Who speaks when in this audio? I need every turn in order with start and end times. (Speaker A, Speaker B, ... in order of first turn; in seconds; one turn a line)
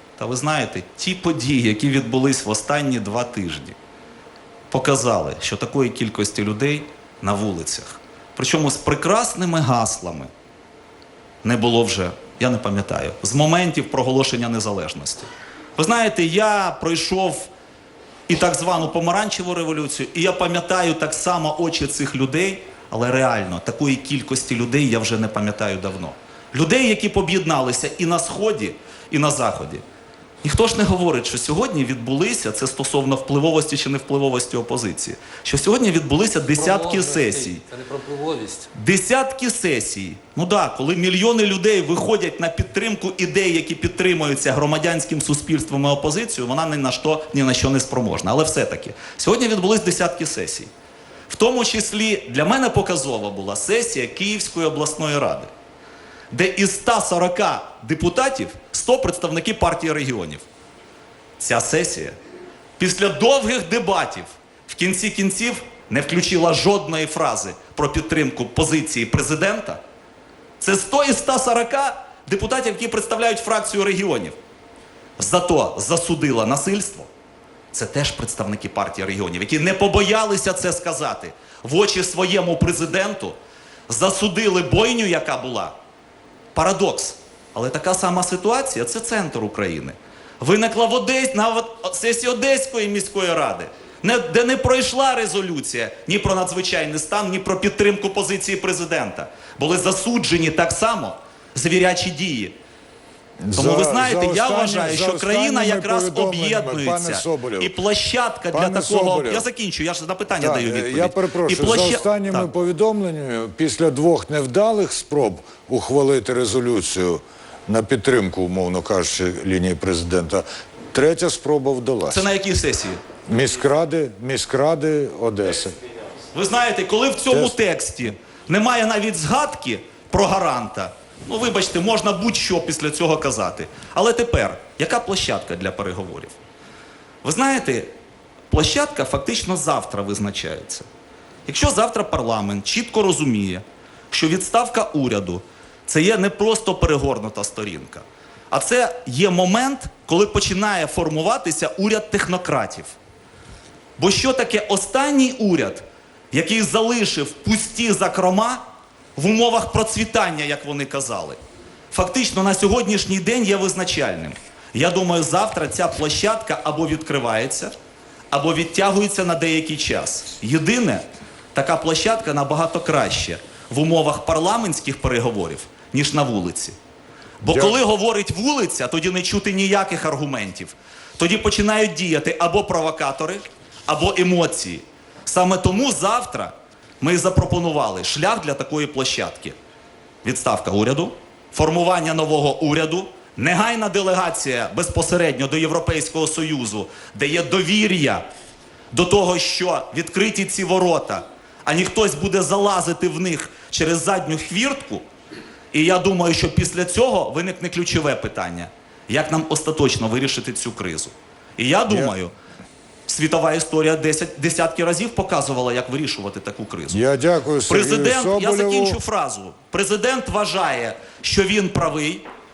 Speaker A: 0.2-3.8
Speaker A: 4.7-10.3
Speaker A: 11.4-17.5
Speaker A: 18.3-29.8
Speaker A: 30.4-37.6
Speaker B: 36.5-38.7
Speaker A: 38.7-50.7
Speaker A: 51.3-55.5
Speaker A: 56.3-60.4
Speaker A: 61.4-62.2
Speaker A: 62.8-69.8
Speaker A: 70.6-74.3
Speaker A: 75.2-77.1
Speaker A: 77.7-83.4
Speaker A: 83.9-85.7
Speaker A: 86.5-102.5
Speaker C: 103.4-107.8
Speaker A: 103.5-112.5
Speaker C: 108.5-109.5
Speaker C: 110.4-122.3
Speaker A: 122.1-123.0
Speaker C: 123.3-125.8
Speaker A: 126.3-136.3
Speaker C: 127.3-127.6
Speaker A: 137.2-137.9
Speaker A: 138.5-140.8
Speaker A: 141.5-152.9
Speaker A: 154.0-158.6
Speaker A: 159.2-161.4
Speaker A: 161.9-167.7
Speaker A: 168.3-176.8
Speaker A: 177.4-189.6
Speaker C: 177.4-177.8
Speaker A: 190.2-198.2
Speaker A: 198.9-205.0
Speaker A: 205.7-212.3
Speaker C: 211.9-212.1
Speaker A: 213.1-217.0
Speaker C: 216.9-219.0
Speaker A: 217.7-222.2